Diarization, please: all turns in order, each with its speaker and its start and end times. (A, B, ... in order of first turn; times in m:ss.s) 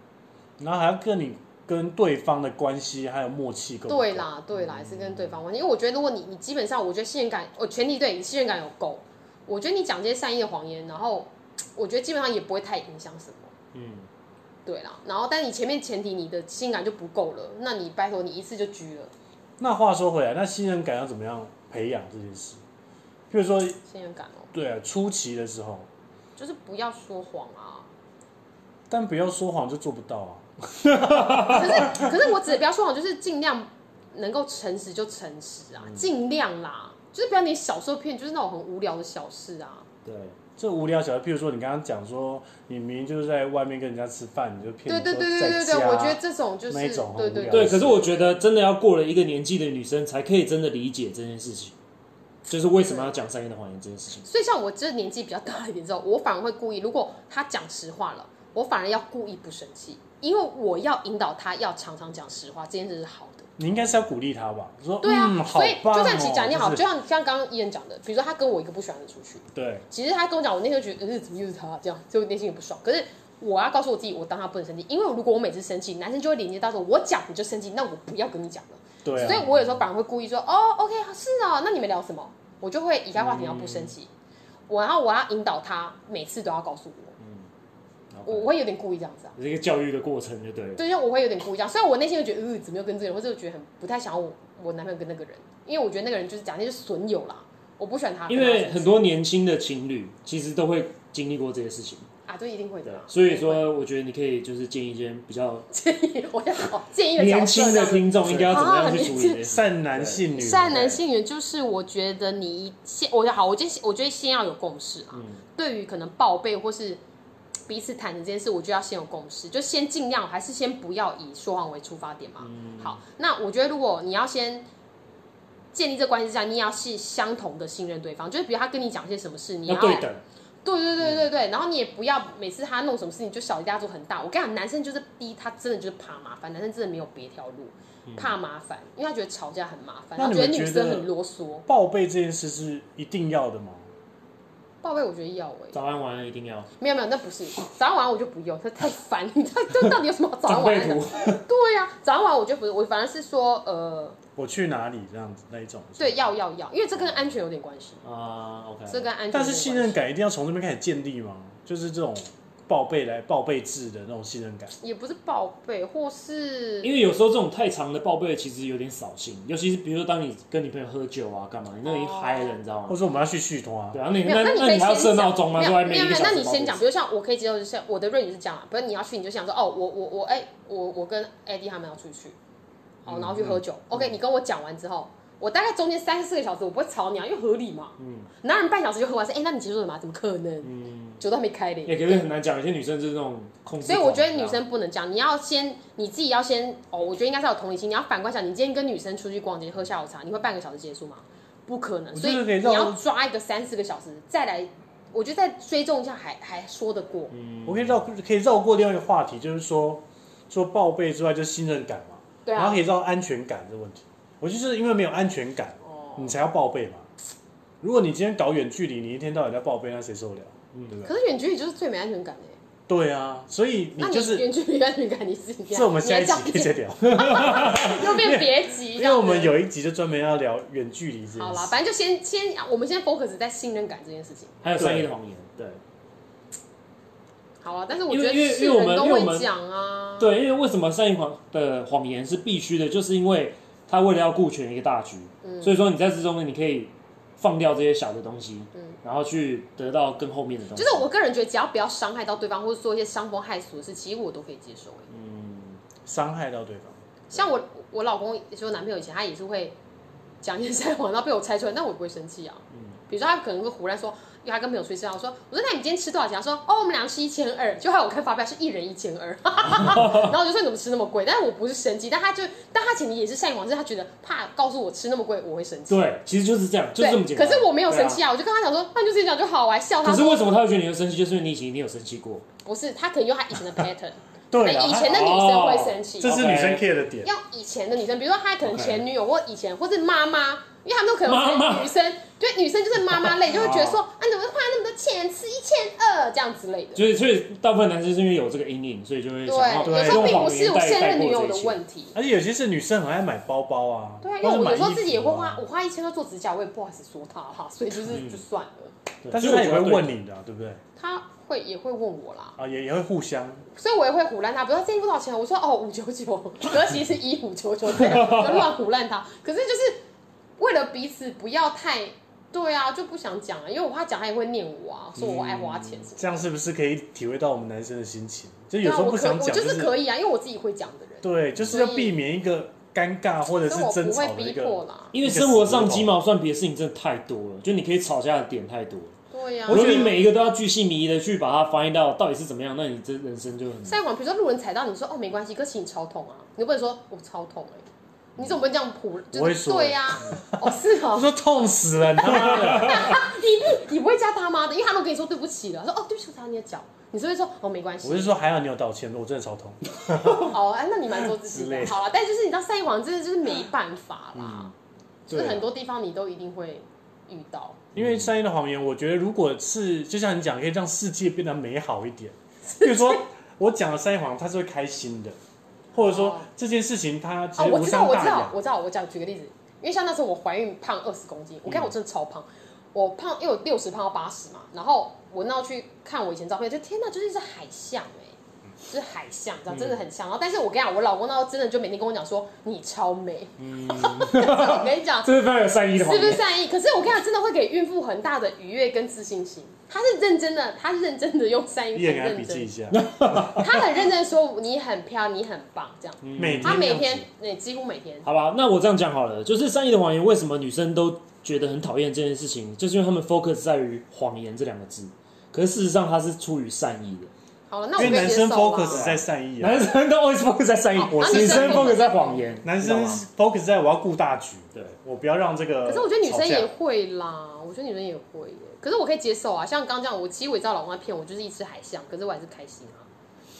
0:00.6-0:04.3 A
0:03.9-0:13.5 B
0:04.7-0:05.4 C
0:13.7-0:14.1 C
0:14.6-0:19.1 B
0:19.6-0:22.6 A
0:23.3-0:23.8 A
0:23.8-0:24.5 B
0:24.5-0:25.9 A
0:26.4-0:27.9 B
0:28.9-0:32.1 A
0:31.4-0:39.9 B
0:35.8-0:36.1 C
0:40.0-0:40.4 C
0:40.6-0:48.0 A
0:44.9-0:47.9 B
0:47.5-0:51.7 C
0:52.5-0:54.3 C
0:52.8-0:53.2 B
0:54.2-1:03.5 B
1:03.6-1:06.8 A
1:05.0-1:24.1 B
1:09.5-1:09.8 A
1:19.0-1:19.5 A
1:19.1-1:19.7 C
1:23.2-1:23.9 C
1:24.7-1:27.1 B
1:27.2-1:27.5 C
1:28.1-1:28.5 C
1:28.2-1:29.3 B
1:29.3-1:30.8 C
1:30.8-1:39.0 B
1:38.3-1:42.1 C
1:42.3-1:43.7 B
1:42.9-1:45.7 C
1:45.7-1:49.4 B
1:47.2-1:50.2 C
1:48.2-1:48.6 A
1:49.4-1:51.0 A
1:50.3-1:57.0 B
1:55.1-1:55.4 C
1:57.7-2:04.7 B
2:02.4-2:03.0 C
2:05.7-2:10.1 B
2:09.7-2:10.2 C
2:10.6-2:21.6 B
2:18.1-2:18.4 C
2:20.2-2:21.1 A
2:21.6-2:23.9 A
2:24.8-2:25.8 B
2:25.7-2:26.7 C
2:26.8-2:34.2 B
2:30.4-2:31.4 C
2:34.4-2:36.3 A
2:36.0-2:38.0 B
2:38.0-2:39.1 C
2:38.9-2:40.0 B
2:39.3-2:44.7 A
2:44.8-2:46.9 B
2:46.8-2:53.0 C
2:51.8-2:52.6 B
2:52.9-2:54.0 A
2:53.9-2:56.8 C
2:54.2-3:02.4 B
3:03.0-3:12.2 B
3:03.1-3:04.2 C
3:08.0-3:08.3 C
3:10.6-3:11.2 C
3:11.8-3:14.6 C
3:13.8-3:27.3 B
3:22.1-3:23.0 A
3:27.3-3:28.0 C
3:27.6-3:37.1 A
3:32.4-3:32.8 B
3:35.8-3:36.4 B
3:37.8-3:41.1 A
3:41.0-3:42.6 B
3:42.9-3:44.5 A
3:44.0-3:49.6 B
3:45.7-3:51.8 A
3:47.1-3:47.7 C
3:51.4-3:54.6 B
3:54.6-3:55.8 C
3:54.8-3:55.1 A
3:57.6-4:00.3 B
3:58.1-3:59.5 C
4:00.2-4:11.1 C
4:05.4-4:05.8 B
4:10.8-4:15.1 B
4:15.1-4:15.8 C
4:16.0-4:17.0 A
4:17.3-4:19.8 B
4:20.4-4:36.1 B
4:29.7-4:30.3 C
4:35.9-4:38.2 C
4:37.0-4:40.5 B
4:40.0-4:42.4 C
4:42.6-4:46.4 B
4:44.5-4:45.2 A
4:44.9-4:46.8 C
4:46.2-4:47.3 A
4:47.2-4:57.0 B
4:48.6-4:49.0 C
4:51.2-4:51.9 C
4:53.1-4:53.3 C
4:53.5-4:54.0 A
4:56.9-5:01.8 C
4:59.4-5:02.2 B
4:59.8-5:00.6 A
5:02.1-5:05.6 A
5:04.2-5:08.9 B
5:08.1-5:08.4 C
5:09.2-5:10.1 C
5:09.3-5:10.8 A
5:11.0-5:12.6 B
5:12.6-5:13.6 A
5:13.7-5:20.0 B
5:18.0-5:18.6 C
5:20.6-5:26.4 B
5:25.2-5:25.8 C
5:26.2-5:29.9 A
5:28.8-5:32.2 B
5:31.2-5:36.2 A
5:33.6-5:35.1 B
5:35.1-5:39.2 C
5:39.3-5:40.2 B
5:39.7-5:40.2 A
5:39.7-5:44.0 C
5:43.8-5:51.3 B
5:49.3-5:53.2 A
5:52.2-5:58.4 B
5:52.3-5:53.1 C
5:58.0-6:00.4 A
6:00.2-6:04.7 B
6:01.5-6:02.0 C
6:04.3-6:04.7 C
6:05.3-6:07.8 B
6:05.3-6:05.6 C
6:07.9-6:08.3 C
6:08.0-6:15.4 A
6:12.7-6:13.2 B
6:15.9-6:18.6 A
6:16.0-6:16.5 B
6:17.6-6:28.4 B
6:28.9-6:35.3 B
6:29.7-6:30.0 C
6:33.6-6:36.4 C
6:36.0-6:42.7 B
6:41.9-6:43.6 A
6:42.9-6:43.7 C
6:43.6-6:48.3 B
6:46.2-6:46.9 C
6:46.4-6:47.2 A
6:48.2-6:57.3 C
6:57.7-6:59.0 B
6:58.0-6:59.8 A
6:58.0-6:58.2 C
6:58.9-7:03.2 C
7:01.0-7:02.6 B
7:01.1-7:02.0 A
7:02.6-7:06.7 A
7:05.8-7:13.1 B